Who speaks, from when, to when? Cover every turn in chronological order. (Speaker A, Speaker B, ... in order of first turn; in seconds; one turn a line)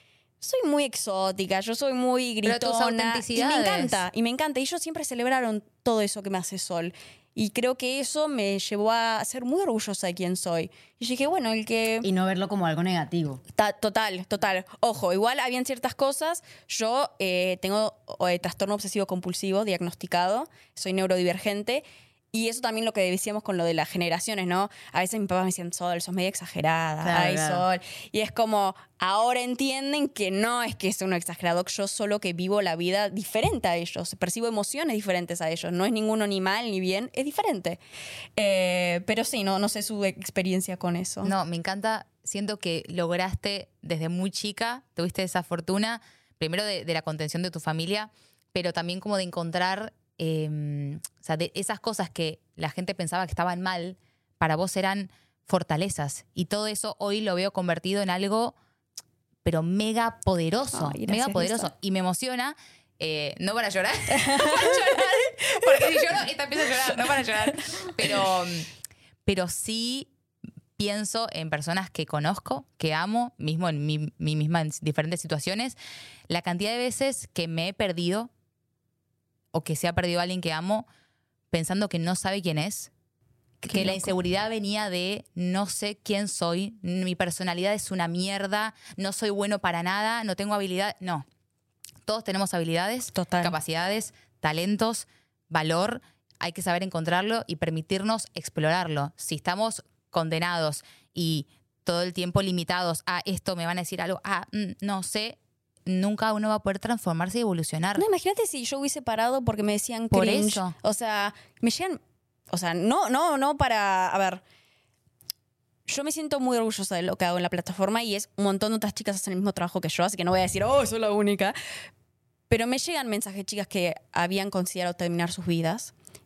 Speaker A: 0.4-12.1
Speaker B: 2.4-4.0
Speaker C: 12.0-13.4
Speaker A: 13.6-37.8
Speaker C: 27.0-27.6
Speaker A: 38.4-41.3
Speaker B: 41.2-58.5
Speaker B: 59.4-68.7
Speaker A: 60.7-61.7
Speaker A: 64.1-66.2
Speaker B: 69.2-70.1
Speaker B: 70.8-75.8
Speaker B: 76.3-78.3
Speaker B: 79.5-80.9
Speaker B: 81.5-82.9
Speaker B: 83.6-91.2
Speaker A: 83.7-84.1
Speaker B: 92.1-108.0
Speaker A: 93.1-93.5
Speaker A: 108.0-114.4
Speaker B: 110.1-110.7
Speaker A: 115.9-121.6
Speaker A: 122.5-125.9